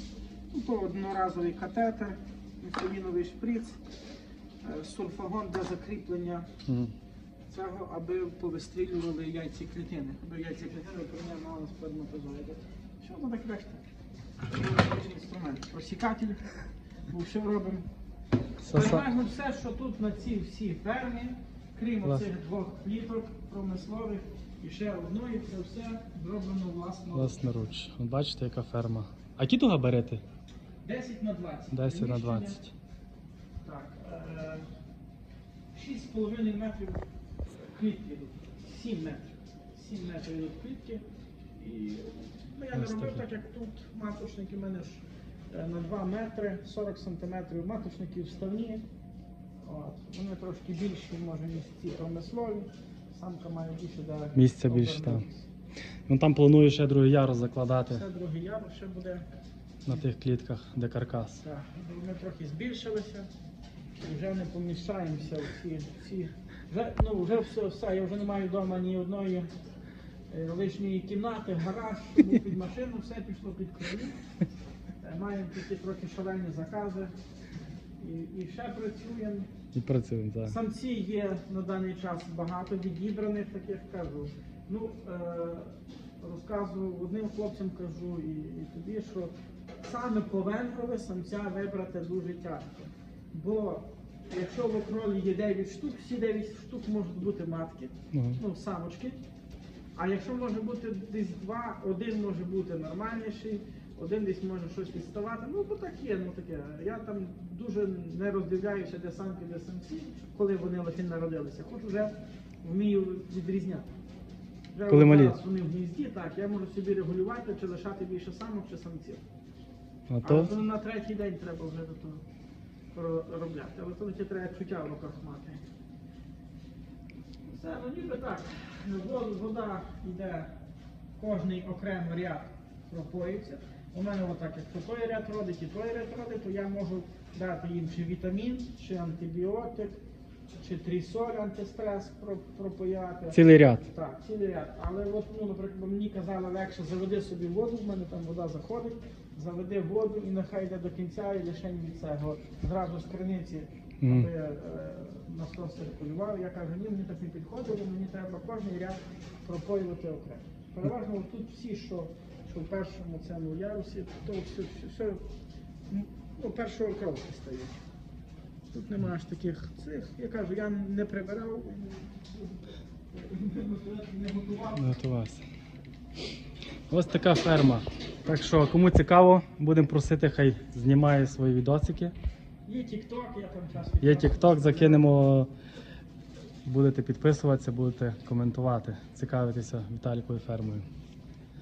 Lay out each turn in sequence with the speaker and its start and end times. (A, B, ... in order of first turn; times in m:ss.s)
0:00.5-0:03.8 A
0:04.6-0:06.5 A
0:06.7-0:06.9 B
0:07.5-0:13.8 A
0:14.5-0:16.5 A
0:17.1-0:17.8 A
0:18.6-0:19.0 B
0:18.7-0:27.4 A
0:27.2-0:30.2 B
0:30.8-0:32.6 A
0:31.7-0:32.7 B
0:33.6-0:34.7 A
0:35.7-0:37.0 A
0:37.6-0:41.0 A
0:41.6-0:48.8 A
0:42.7-0:43.2 B
0:49.6-0:55.4 A
0:54.4-0:55.2 B
0:56.1-0:58.0 B
0:57.9-0:59.3 A
0:59.8-1:01.4 B
1:01.4-1:03.3 A
1:04.0-1:09.5 A
1:10.3-1:14.2 A
1:15.0-1:17.1 A
1:18.0-1:19.5 A
1:19.7-1:20.6 B
1:20.4-1:39.2 A
1:38.1-1:38.4 B
1:40.0-1:53.9 A
1:54.7-1:59.2 A
1:54.9-1:55.4 B
2:00.1-2:00.5 B
2:00.2-2:02.2 A
2:02.9-2:05.6 A
2:07.5-2:10.5 A
2:11.2-2:20.0 A
2:20.5-2:45.2 A
2:23.3-2:23.8 B
2:34.0-2:34.3 B
2:45.9-2:47.8 A
2:48.7-2:54.8 A
2:54.8-2:55.4 B
2:56.9-3:02.1 B
3:02.7-3:05.1 A
3:04.0-3:05.5 B
3:06.6-3:10.8 B